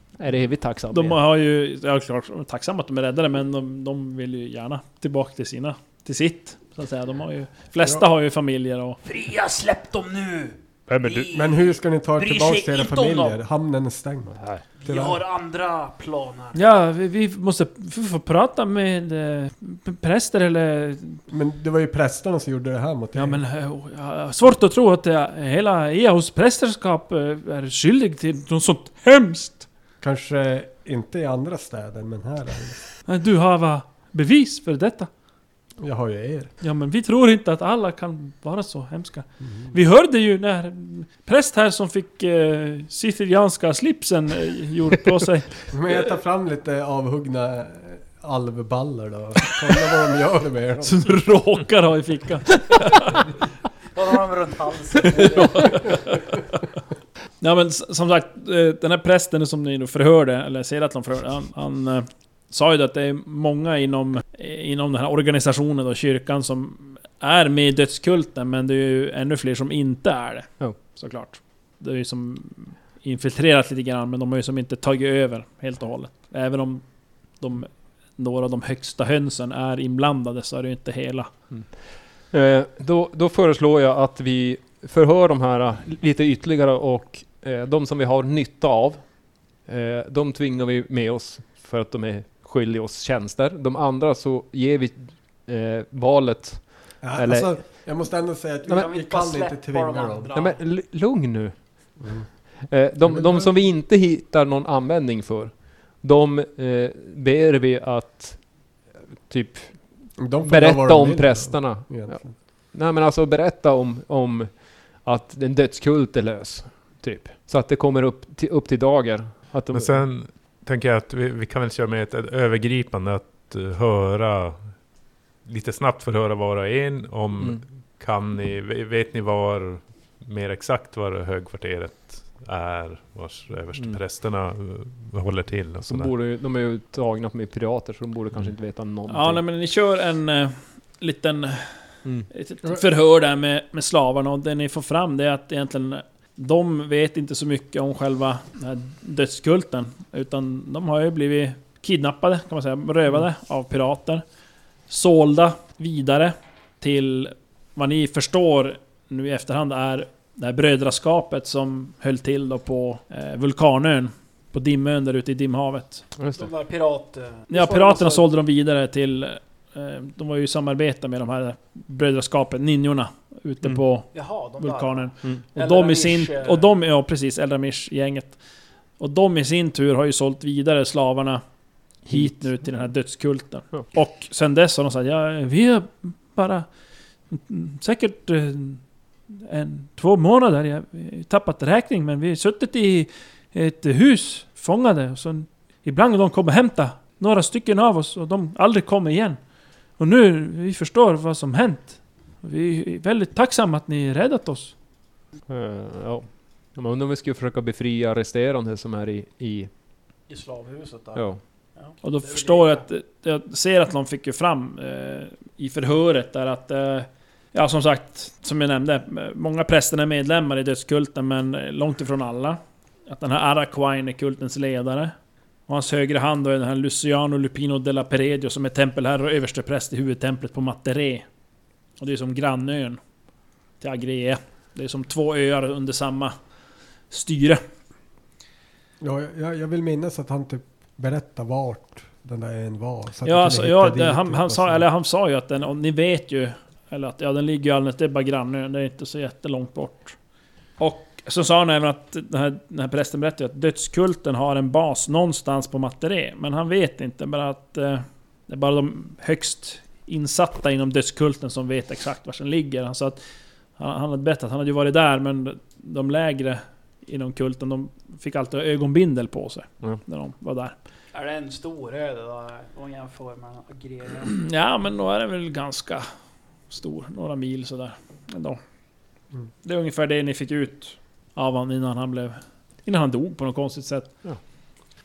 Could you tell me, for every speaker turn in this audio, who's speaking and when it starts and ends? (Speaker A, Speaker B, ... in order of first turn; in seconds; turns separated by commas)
Speaker A: 0.2-1.2, Speaker B: 0.9-9.0, Speaker C: 9.0-13.4, Speaker A: 10.9-11.3, Speaker D: 11.3-15.2, Speaker A: 14.4-14.7, Speaker C: 14.8-16.6, Speaker B: 16.5-21.2, Speaker D: 21.3-23.4, Speaker B: 23.1-29.7, Speaker D: 30.0-32.9, Speaker B: 33.1-35.1, Speaker D: 35.8-36.5, Speaker B: 36.6-45.5, Speaker D: 39.5-39.7, Speaker D: 45.7-51.1, Speaker B: 50.8-53.3, Speaker C: 54.0-56.1, Speaker B: 55.0-56.5, Speaker B: 57.4-76.8, Speaker B: 77.4-81.3, Speaker A: 82.3-97.8, Speaker D: 97.0-100.3, Speaker C: 98.7-100.6, Speaker A: 100.3-101.6, Speaker D: 102.0-102.3, Speaker A: 102.5-112.2, Speaker D: 103.0-103.5, Speaker D: 110.2-112.4, Speaker A: 112.7-120.0, Speaker E: 119.7-124.7, Speaker E: 125.5-136.1, Speaker A: 135.8-139.4, Speaker B: 139.1-154.2, Speaker B: 154.9-166.1, Speaker A: 166.2-166.5, Speaker C: 166.3-168.3, Speaker B: 167.5-178.4, Speaker C: 174.1-176.7, Speaker B: 179.0-181.4, Speaker A: 182.1-182.5, Speaker B: 182.1-186.7, Speaker B: 187.3-188.8, Speaker B: 189.3-199.4, Speaker B: 200.0-204.7, Speaker A: 205.5-209.7, Speaker C: 210.3-212.8, Speaker A: 211.2-211.4, Speaker B: 212.0-225.2, Speaker B: 225.7-231.3, Speaker B: 232.0-233.0, Speaker B: 233.8-236.3, Speaker B: 237.1-237.6, Speaker D: 239.0-244.8, Speaker B: 243.2-250.2, Speaker B: 250.8-263.2, Speaker B: 263.8-270.8, Speaker C: 271.1-274.3, Speaker B: 274.3-276.1, Speaker B: 276.7-278.6, Speaker B: 279.6-284.1